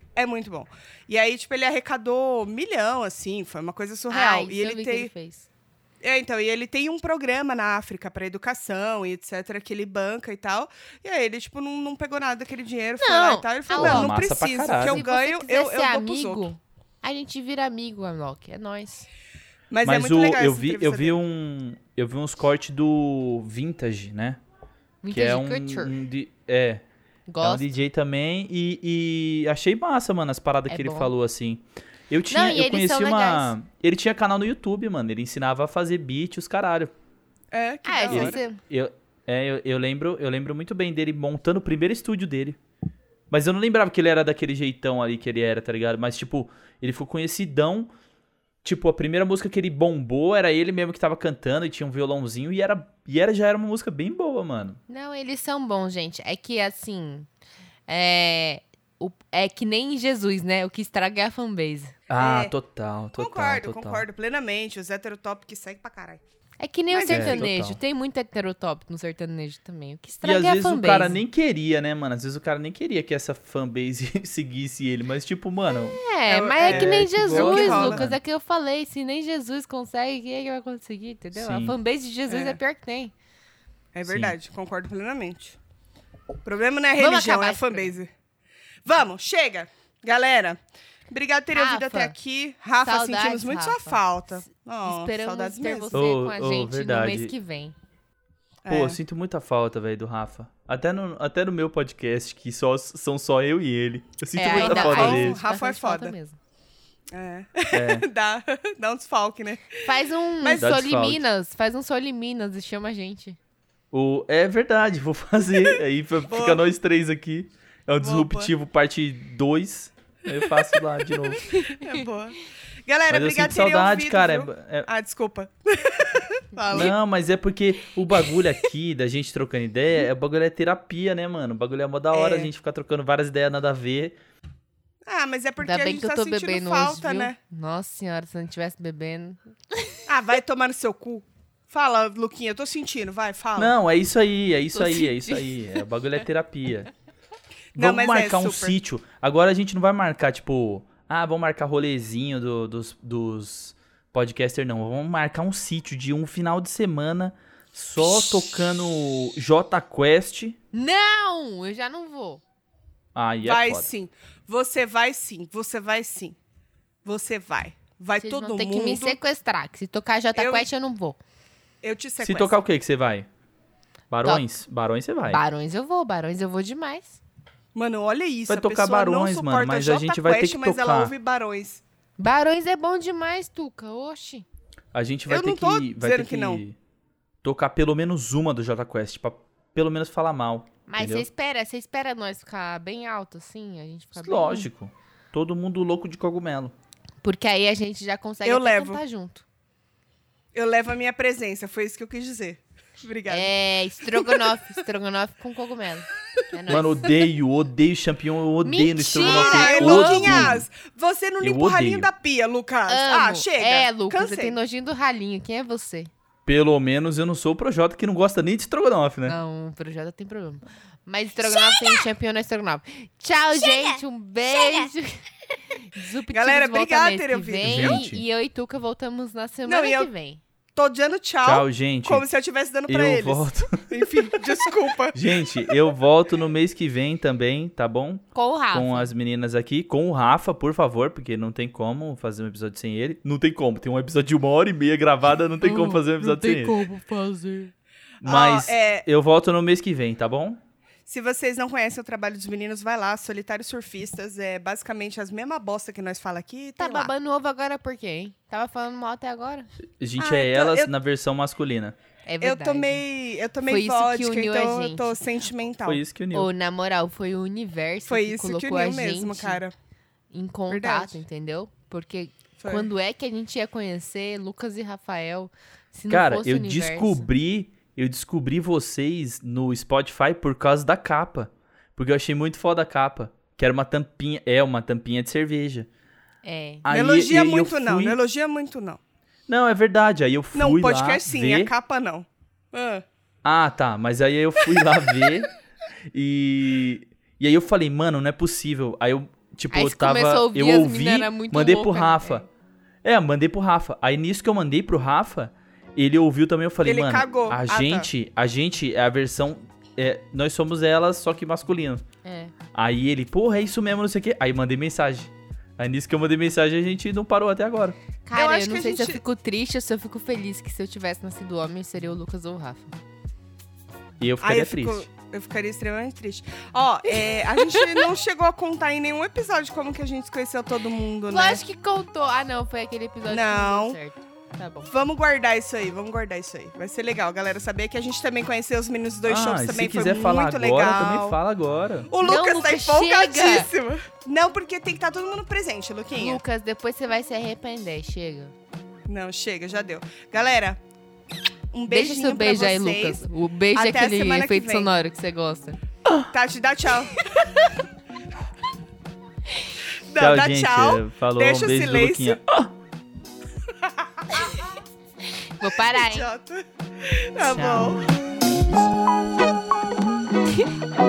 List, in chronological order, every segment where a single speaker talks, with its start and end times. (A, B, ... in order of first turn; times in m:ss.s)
0:00.1-0:05.1 A
0:04.1-0:05.5 B
0:06.0-0:16.5 A
0:13.0-0:19.1 B
0:13.8-0:15.0 C
0:19.7-0:21.2 A
0:19.8-0:24.4 C
0:25.0-0:25.9 B
0:25.1-0:26.8 C
0:27.3-0:27.7 B
0:27.4-0:36.9 C
0:30.7-0:31.1 B
0:32.3-0:33.5 B
0:37.5-0:38.4 A
0:37.8-0:38.6 B
0:38.1-0:42.6 C
0:43.3-0:47.9 C
0:48.6-0:54.8 C
0:54.9-0:57.3 B
0:57.9-1:02.0 B
1:02.1-1:04.0 C
1:02.1-1:02.5 A
1:03.2-1:06.2 A
1:06.6-1:11.2 B
1:06.9-1:07.5 A
1:07.1-1:07.8 C
1:10.2-1:16.0 C
1:16.0-1:23.1 B
1:16.3-1:18.0 A
1:16.6-1:18.2 C
1:21.3-1:21.7 C
1:22.3-1:22.6 A
1:23.9-1:25.6 A
1:24.0-1:24.3 C
1:26.4-1:28.1 A
1:27.0-1:28.0 B
1:28.8-1:30.6 A
1:31.1-1:36.0 A
1:31.5-1:32.1 B
1:32.8-1:37.7 B
1:35.9-1:37.3 C
1:38.6-1:39.0 A
1:38.7-1:45.4 C
1:44.4-1:46.4 B
1:44.4-1:46.2 A
1:47.1-1:50.7 A
1:47.7-1:48.1 C
1:49.8-1:53.4 B
1:50.6-1:51.2 C
1:53.9-2:01.6 C
1:56.3-1:56.6 A
1:58.0-1:58.5 A
2:01.7-2:06.9 A
2:03.1-2:04.9 C
2:06.7-2:14.2 C
2:12.1-2:12.5 A
2:15.0-2:17.4 A
2:15.6-2:20.0 B
2:20.0-2:23.7 A
2:23.6-2:26.9 C
2:24.7-2:25.5 B
2:27.7-2:28.8 A
2:27.7-2:40.6 C
2:40.7-2:42.4 B
2:43.1-2:43.9 C
2:43.4-2:46.4 A
2:47.0-2:49.2 A
2:48.2-2:51.2 B
2:50.3-2:50.7 A
2:51.8-2:52.6 A
2:52.2-2:53.3 C
2:54.1-2:55.4 C
2:55.3-2:57.2 B
2:57.7-3:01.8 A
2:58.5-3:01.1 C
3:02.2-3:04.4 B
3:04.9-3:06.8 C
3:05.3-3:06.6 A
3:07.4-3:11.2 C
3:10.9-3:14.7 B
3:14.2-3:16.7 C
3:17.2-3:19.4 B
3:18.4-3:19.0 A
3:20.5-3:23.5 A
3:23.3-3:27.2 B
3:24.0-3:24.6 A
3:26.7-3:30.6 C
3:28.6-3:30.6 B
3:29.2-3:34.6 A
3:31.4-3:32.1 C
3:32.9-3:36.1 B
3:36.4-3:39.4 C
3:39.2-3:45.2 B
3:45.7-3:50.4 B
3:46.3-3:48.1 A
3:47.6-3:48.2 C
3:49.6-3:50.1 A
3:50.7-3:55.2 A
3:51.4-3:52.3 C
3:52.9-3:54.4 C
3:55.1-4:06.8 C
3:58.3-3:59.1 B
4:05.6-4:07.7 B
4:08.2-4:10.6 C
4:08.2-4:09.0 A
4:11.0-4:17.1 A
4:16.8-4:19.7 B
4:20.0-4:22.0 C
4:20.2-4:20.9 A
4:22.2-4:23.0 B
4:22.4-4:26.0 A
4:23.6-4:25.2 B
4:25.8-4:26.5 C
4:26.3-4:29.6 B
4:28.1-4:29.7 A
4:30.3-4:37.3 B
4:30.7-4:31.2 A
4:32.6-4:32.9 A
4:36.1-4:45.9 C
4:46.4-4:46.8 B
4:46.8-4:48.2 C
4:46.9-4:49.0 A
4:49.5-4:51.7 C
4:50.5-4:53.0 A
4:53.4-4:55.5 C
4:56.1-5:02.4 C
4:59.7-5:02.4 B
5:03.0-5:12.0 C
5:06.8-5:08.1 A
5:12.2-5:12.5 B
5:12.7-5:18.0 C
5:18.2-5:22.9 B
5:18.3-5:19.2 A
5:24.2-5:25.1 C
5:24.4-5:31.6 A
5:27.2-5:27.9 B
5:31.3-5:34.9 B
5:33.3-5:34.0 A
5:34.9-5:41.4 A
5:39.3-5:42.1 C
5:42.1-5:46.4 A
5:42.2-5:43.7 B
5:46.1-5:48.5 B
5:49.1-5:50.8 A
5:51.7-5:54.9 A
5:51.9-5:55.8 B
5:56.3-5:57.2 A
6:00.1-6:02.4 A
6:00.2-6:02.7 C
6:03.7-6:04.7 A
6:05.6-6:06.3 B
6:05.6-6:08.5 A
6:07.4-6:08.0 B